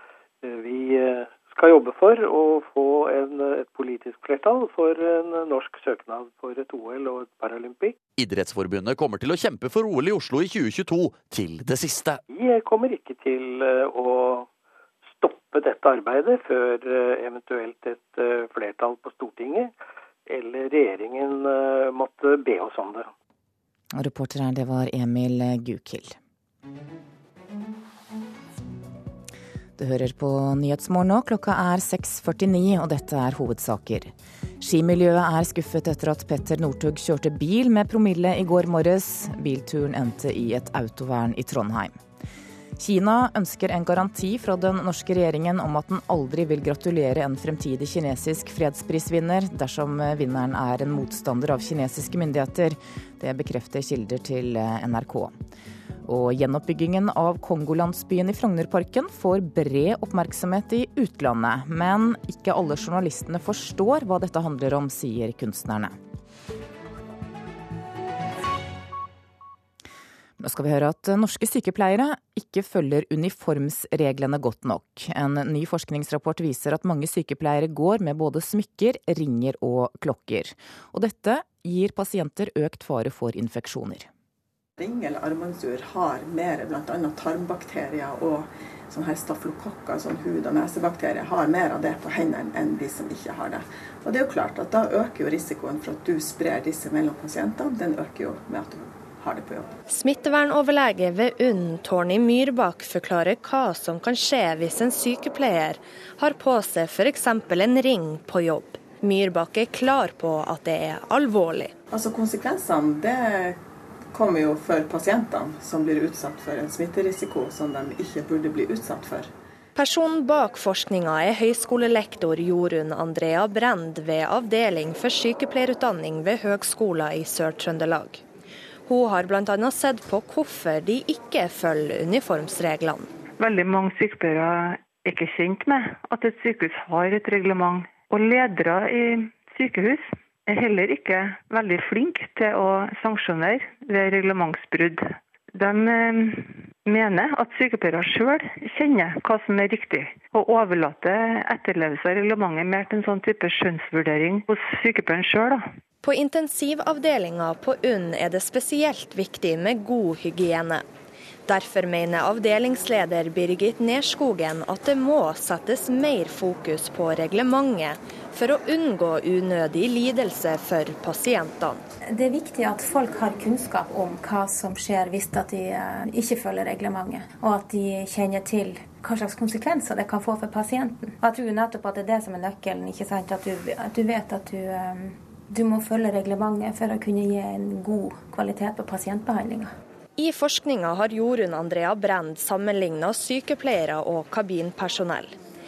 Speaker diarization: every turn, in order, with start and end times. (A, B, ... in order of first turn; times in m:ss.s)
0:00.4-0:07.9 A
0:08.2-0:12.2 B
0:12.3-0:14.5 A
0:15.2-0:19.7 A
0:20.3-0:23.1 A
0:24.0-0:26.2 C
0:29.8-0:42.0 C
0:42.8-0:55.4 C
0:56.1-1:06.0 C
1:10.4-1:24.1 C
1:24.8-1:39.8 D
1:39.9-1:51.7 E
1:51.9-1:53.6 D
1:54.1-1:59.3 D
1:59.8-2:08.2 E
2:08.9-2:13.1 E
2:13.4-2:35.7 F
2:36.0-2:40.8 E
2:41.5-2:51.8 E
2:52.1-3:09.7 G
3:10.2-3:15.4 E